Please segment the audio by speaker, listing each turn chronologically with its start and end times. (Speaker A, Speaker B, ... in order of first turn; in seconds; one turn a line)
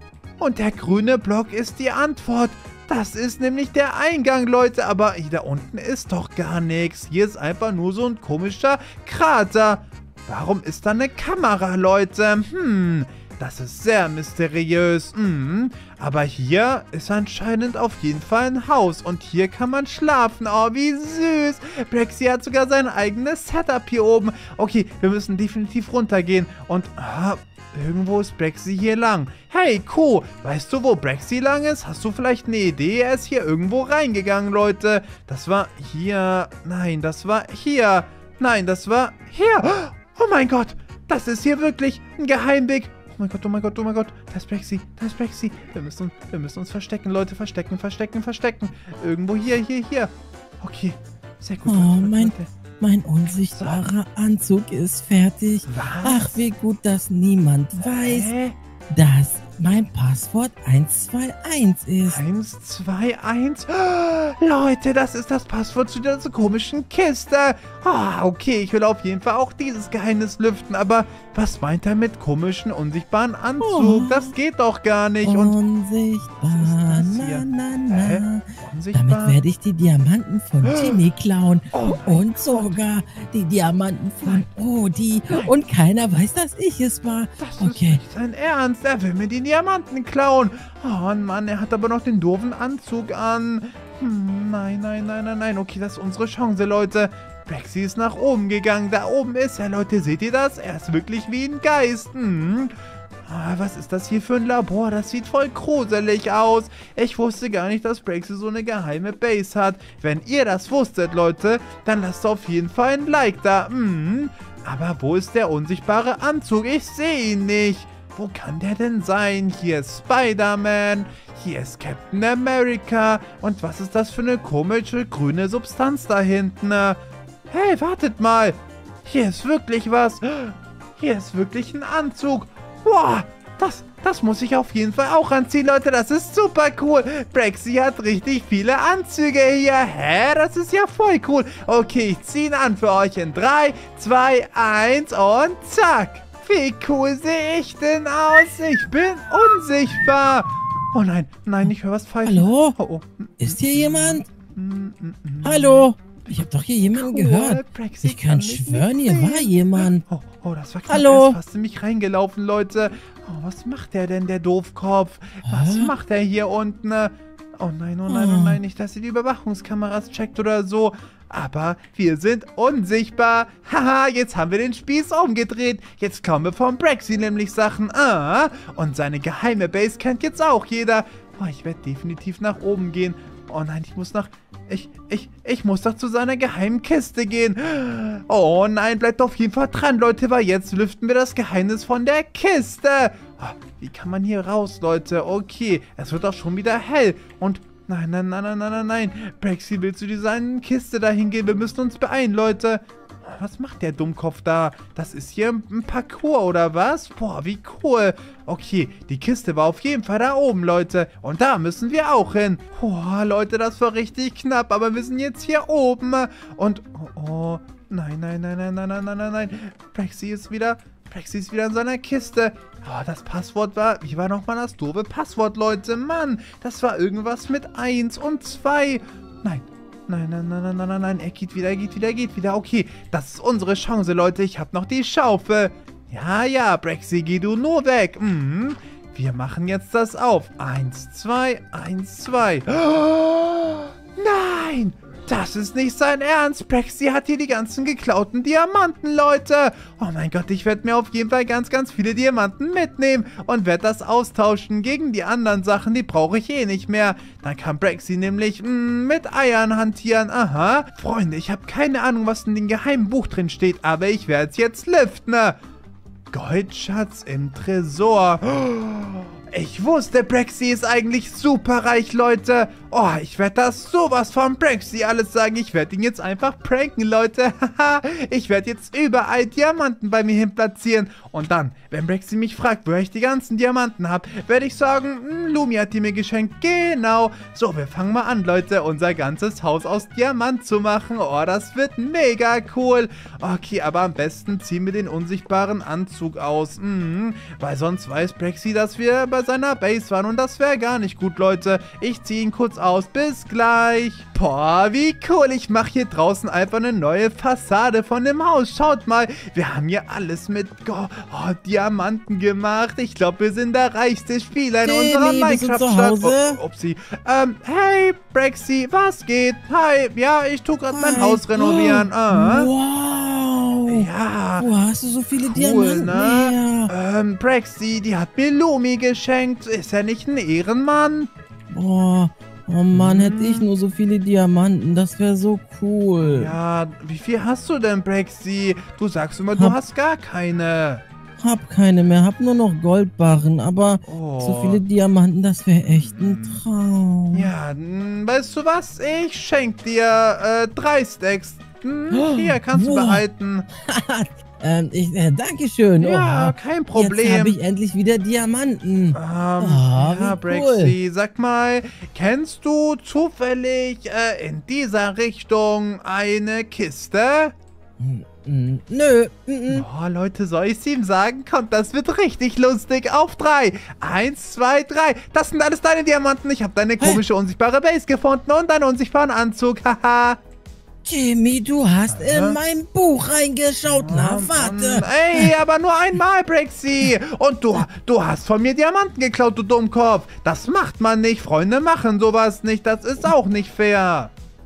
Speaker A: 0.4-52.5
Speaker B: 51.7-58.3
Speaker A: 53.6-53.9
Speaker A: 55.7-56.4
Speaker A: 57.8-58.6
Speaker B: 58.9-62.2
Speaker A: 62.0-75.6
Speaker B: 73.6-74.3
Speaker B: 75.2-88.0
Speaker A: 76.4-79.4
Speaker A: 80.6-81.0
Speaker A: 81.7-82.8
Speaker A: 87.4-102.8
Speaker A: 103.3-265.6
Speaker B: 152.2-152.8
Speaker B: 153.4-154.2
Speaker B: 155.4-160.0
Speaker B: 160.9-161.4
Speaker B: 165.5-165.9
Speaker B: 168.1-168.6
Speaker A: 266.3-322.7
Speaker B: 314.8-316.6
Speaker B: 320.9-326.9
Speaker A: 323.9-324.7
Speaker A: 325.4-331.3
Speaker B: 331.7-336.5
Speaker A: 332.9-333.7
Speaker A: 336.2-341.0
Speaker B: 341.4-347.5
Speaker A: 344.1-344.8
Speaker A: 345.9-346.6
Speaker A: 347.3-353.7
Speaker B: 352.1-353.2
Speaker B: 353.9-360.9
Speaker A: 356.0-357.6
Speaker A: 359.1-367.5
Speaker B: 368.0-369.9
Speaker A: 369.7-380.4
Speaker B: 381.0-385.5
Speaker A: 382.1-382.6
Speaker A: 383.8-394.3